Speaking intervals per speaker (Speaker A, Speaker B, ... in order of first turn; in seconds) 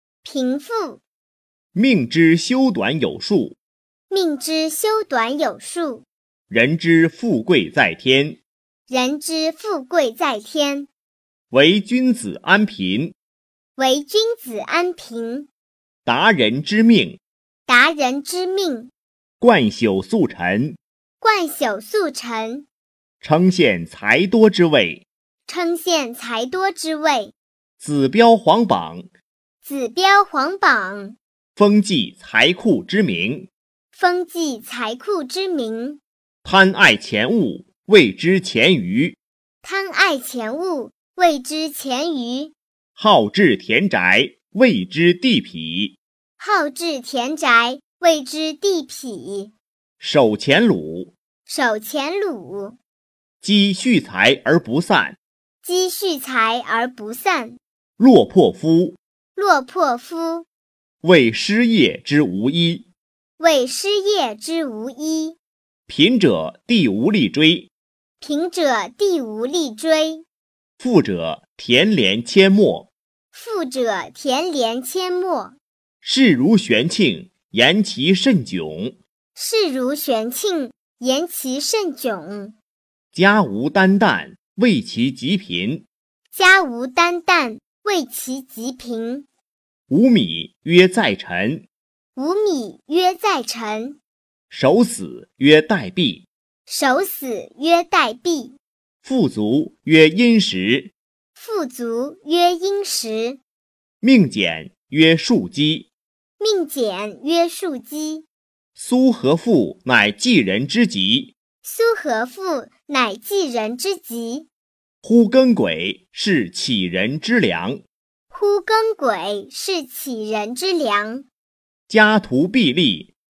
Speaker A: 0.2-1.0, 4.1-6.0, 8.9-10.9, 13.8-15.5, 17.7-18.9, 21.2-22.7, 25.5-27.3, 29.6-31.2, 34.0-36.0, 39.6-42.5, 46.4-49.5, 51.5-52.8, 55.6-57.6, 59.4-60.5, 63.4-65.4, 68.2-70.2, 73.3-75.6, 79.3-82.5, 86.3-89.3, 92.2-94.0, 96.7-98.6, 101.4-103.4, 106.4-108.3, 111.6-114.5, 118.3-121.3
Speaker B: 1.7-3.6, 6.5-8.4, 11.5-13.2, 16.1-17.2, 19.4-20.8, 23.2-25.1, 27.8-29.1, 31.6-33.5, 36.4-39.2, 43.0-46.0, 50.0-51.1, 53.4-55.2, 58.0-59.0, 61.0-62.9, 65.9-67.7, 70.8-72.9, 76.0-79.0, 83.1-85.9, 89.9-91.7, 94.5-96.3, 99.0-100.9, 104.0-105.9, 108.8-111.3, 115.0-117.8, 121.9-123.1